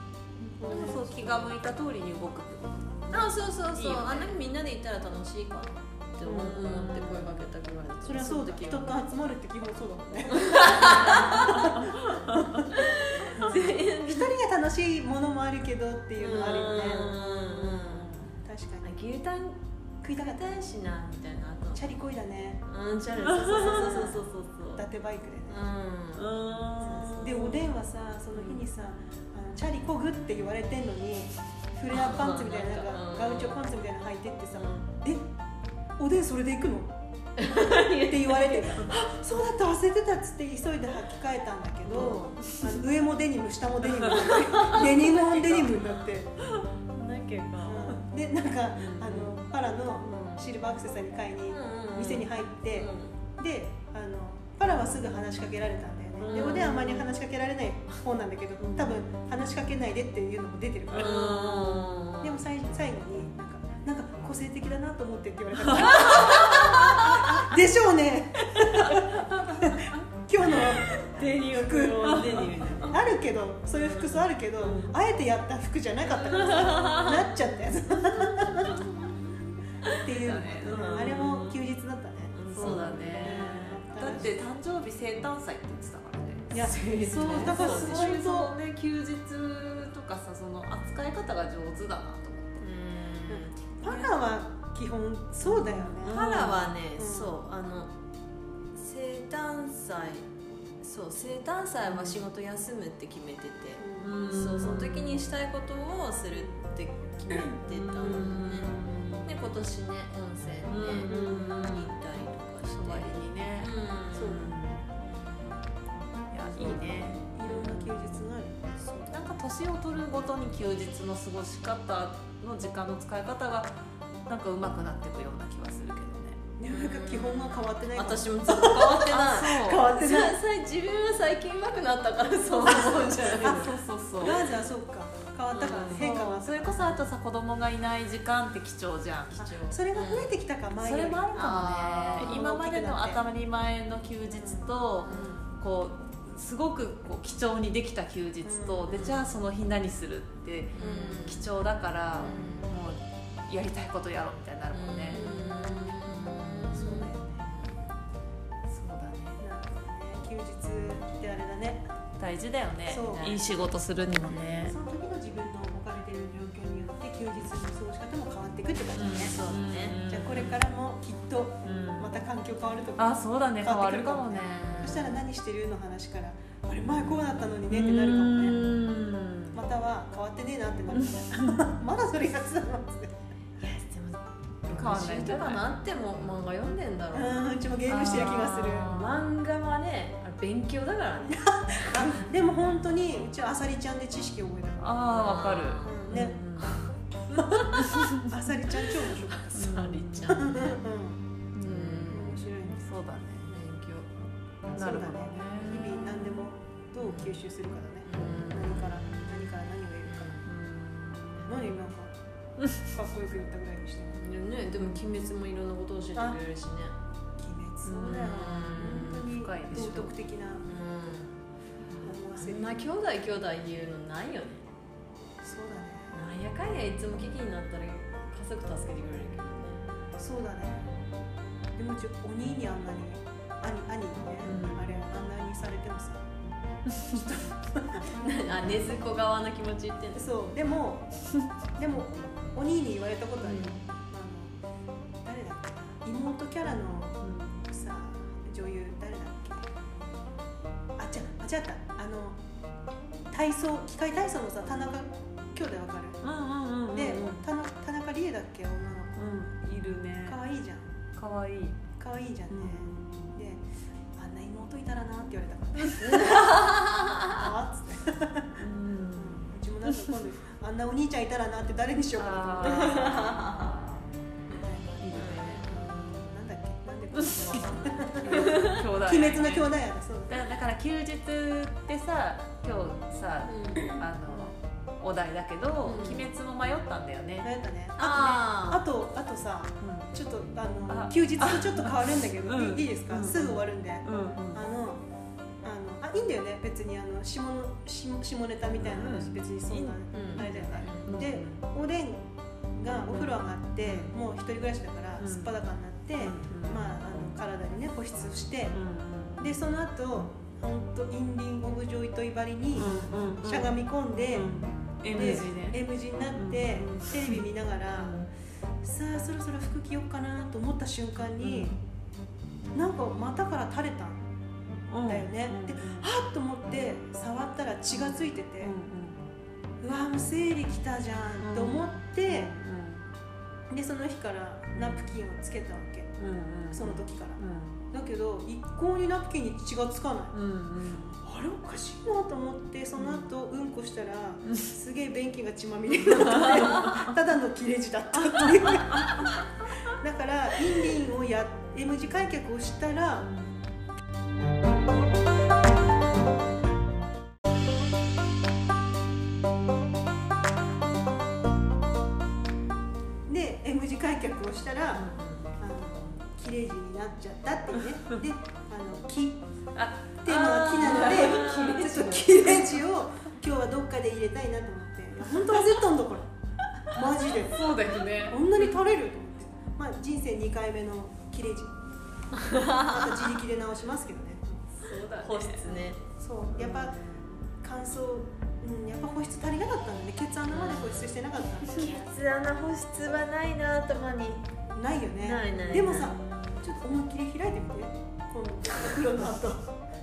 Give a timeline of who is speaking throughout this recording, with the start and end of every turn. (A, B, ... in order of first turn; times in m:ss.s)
0:00.5-0:01.4 A
0:00.6-0:04.4 B
0:00.8-0:01.2 C
0:03.1-0:09.0 C
0:06.2-0:07.1 A
0:06.3-0:07.2 B
0:08.0-0:12.8 A
0:10.4-0:11.8 C
0:11.0-0:12.6 B
0:12.7-0:14.3 C
0:14.0-0:17.1 A
0:16.2-0:18.1 C
0:16.7-0:18.4 B
0:18.4-0:18.9 A
0:18.8-0:19.6 C
0:20.0-0:20.6 A
0:20.1-0:22.1 C
0:21.7-0:22.6 A
0:22.6-0:24.8 C
0:23.2-0:24.0 B
0:23.4-0:24.2 A
0:24.7-0:25.6 A
0:25.5-0:27.4 C
0:26.2-0:27.6 B
0:27.0-0:35.2 A
0:28.3-0:28.6 C
0:31.9-0:33.6 C
0:34.5-0:34.8 C
0:36.0-0:36.9 A
0:37.4-0:39.0 C
0:38.0-0:46.3 A
0:41.8-0:42.4 C
0:43.9-0:44.8 B
0:44.4-0:45.7 C
0:46.9-0:48.0 C
0:47.6-1:01.2 A
0:48.8-0:49.3 B
0:50.0-0:50.5 C
0:51.5-0:53.2 C
0:56.2-0:56.8 B
0:56.3-0:57.1 C
0:58.6-0:58.9 B
1:00.9-1:01.9 B
1:00.9-1:02.4 C
1:02.2-1:10.9 A
1:06.0-1:07.1 C
1:10.5-1:13.0 C
1:11.5-1:18.7 A
1:12.1-1:12.5 B
1:14.6-1:14.9 B
1:16.2-1:16.8 B
1:16.2-1:17.4 C
1:18.2-1:20.1 C
1:20.0-1:24.4 A
1:20.0-1:21.6 B
1:20.6-1:21.3 C
1:22.3-1:23.5 C
1:22.5-1:26.6 B
1:26.5-1:28.5 A
1:26.5-1:28.0 C
1:27.1-1:32.6 B
1:32.6-1:34.2 C
1:33.3-1:36.3 A
1:35.4-1:37.9 C
1:36.0-1:36.7 B
1:37.0-1:37.4 A
1:38.7-1:40.3 C
1:40.8-1:55.5 C
1:41.8-1:42.2 B
1:43.8-1:44.1 A
1:44.0-1:45.1 B
1:47.7-1:49.3 B
1:50.6-1:51.9 B
1:51.0-1:51.4 A
1:52.6-1:54.8 B
1:54.1-1:54.6 A
1:56.3-1:57.9 B
1:56.5-1:59.3 A
1:57.5-1:57.8 C
1:59.1-2:06.4 B
2:06.6-2:10.4 A
2:06.7-2:13.7 C
2:08.9-2:09.9 B
2:12.6-2:14.4 B
2:12.6-2:17.0 A
2:15.5-2:19.6 B
2:19.4-2:23.2 A
2:19.4-2:20.3 C
2:20.7-2:37.2 B
2:21.3-2:22.4 C
2:24.3-2:25.4 A
2:25.0-2:25.4 C
2:28.4-2:29.2 A
2:28.9-2:29.3 C
2:30.8-2:31.5 C
2:32.2-2:32.8 C
2:34.7-2:37.9 C
2:35.1-2:35.6 A
2:36.7-2:37.5 A
2:38.7-2:39.4 B
2:39.4-2:41.8 A
2:42.2-2:44.8 B
2:42.8-2:43.3 A
2:43.0-2:43.5 C
2:44.6-2:49.4 A
2:48.9-2:50.6 B
2:49.2-2:50.0 C
2:50.1-2:58.7 A
2:51.6-2:52.1 B
2:53.0-2:55.0 B
2:54.8-2:55.0 C
2:57.7-2:59.6 B
2:59.5-3:03.1 A
3:03.6-3:04.1 C
3:03.8-3:04.1 B
3:04.7-3:12.0 C
3:04.7-3:05.6 B
3:07.1-3:09.0 A
3:07.9-3:09.2 B
3:11.3-3:16.4 A
3:14.8-3:16.9 B
3:15.1-3:17.7 C
3:17.8-3:18.2 B
3:18.1-3:19.7 A
3:19.3-3:20.8 C
3:19.5-3:20.4 B
3:20.2-3:21.2 A
3:21.5-3:23.5 B
3:21.6-3:22.5 C
3:22.1-3:22.9 A
3:23.5-3:24.1 C
3:24.7-3:30.3 A
3:24.8-3:26.4 B
3:27.0-3:27.3 C
3:28.0-3:29.1 C
3:28.2-3:28.7 B
3:30.0-3:30.5 C
3:30.4-3:31.8 B
3:31.4-3:32.1 A
3:32.8-3:34.2 A
3:34.1-3:36.9 C
3:36.1-3:36.4 A
3:37.4-3:40.7 A
3:37.8-3:40.1 B
3:38.0-3:39.3 C
3:40.6-3:41.3 C
3:42.0-3:42.8 A
3:42.3-3:44.6 C
3:45.4-3:46.2 A
3:46.1-3:49.9 C
3:50.2-3:50.9 A
3:51.7-3:56.3 A
3:54.4-3:55.0 B
3:57.0-3:57.3 B
3:57.3-3:58.0 A
3:58.1-4:00.3 C
4:00.1-4:01.1 A
4:01.8-4:04.6 A
4:03.4-4:03.8 B
4:05.2-4:09.7 A
4:07.2-4:07.6 B
4:11.0-4:12.4 A
4:13.3-4:16.2 A
4:16.2-4:17.4 B
4:16.9-4:19.6 A
4:19.2-4:20.4 B
4:20.2-4:21.0 A
4:21.2-4:21.8 B
4:21.9-4:23.6 A
4:22.5-4:23.1 B
4:24.2-4:26.7 A
4:26.0-4:27.2 C
4:27.2-4:28.5 A
4:28.6-4:30.2 B
4:29.1-4:33.1 A
4:32.2-4:34.1 B
4:32.8-4:33.6 C
4:34.5-4:34.9 A
4:35.0-4:36.3 B
4:35.1-4:35.6 C
4:35.6-4:40.4 A
4:37.2-4:39.7 B
4:38.3-4:38.8 C
4:40.3-4:47.5 B
4:43.4-4:44.0 C
4:45.8-4:46.3 C
4:47.4-4:55.0 A
4:48.0-4:48.8 C
4:48.0-4:48.4 B
4:49.8-4:50.1 B
4:50.9-4:54.6 B
4:55.6-5:02.2 A
4:58.8-5:01.6 B
5:00.1-5:01.2 C
5:02.8-5:08.8 A
5:03.8-5:04.1 B
5:05.2-5:05.5 B
5:06.2-5:06.8 B
5:08.7-5:09.5 B
5:09.4-5:14.5 A
5:12.8-5:13.8 B
5:14.3-5:15.8 B
5:15.1-5:18.2 A
5:16.3-5:17.4 B
5:18.0-5:18.2 B
5:18.8-5:21.8 A
5:21.4-5:21.8 B
5:22.7-5:24.3 A
5:24.9-5:26.1 B
5:25.0-5:28.7 A
5:28.6-5:29.2 B
5:29.8-5:32.5 A
5:31.4-5:33.0 B
5:33.7-5:36.1 A
5:34.7-5:35.1 B
5:36.2-5:37.8 B
5:36.7-5:40.4 A
5:40.3-5:41.2 B
5:41.2-5:49.4 A
5:43.0-5:43.2 B
5:46.1-5:47.1 B
5:48.4-5:49.3 B
5:49.9-5:53.3 A
6:03.3-6:09.4 A
6:05.0-6:05.4 B
6:09.8-6:11.8 B
6:10.2-6:16.3 A
6:10.8-6:12.8 C
6:16.8-6:17.7 A
6:17.0-6:18.7 B
6:18.2-6:21.7 A
6:22.3-6:23.3 C
6:22.6-6:24.6 A
6:24.8-6:25.8 B
6:25.2-6:26.0 C
6:26.0-6:27.1 A
6:26.5-6:27.1 B
6:27.6-6:32.1 A
6:30.5-6:34.4 C
6:34.7-6:39.7 A
6:35.2-6:36.2 C
6:35.7-6:36.6 B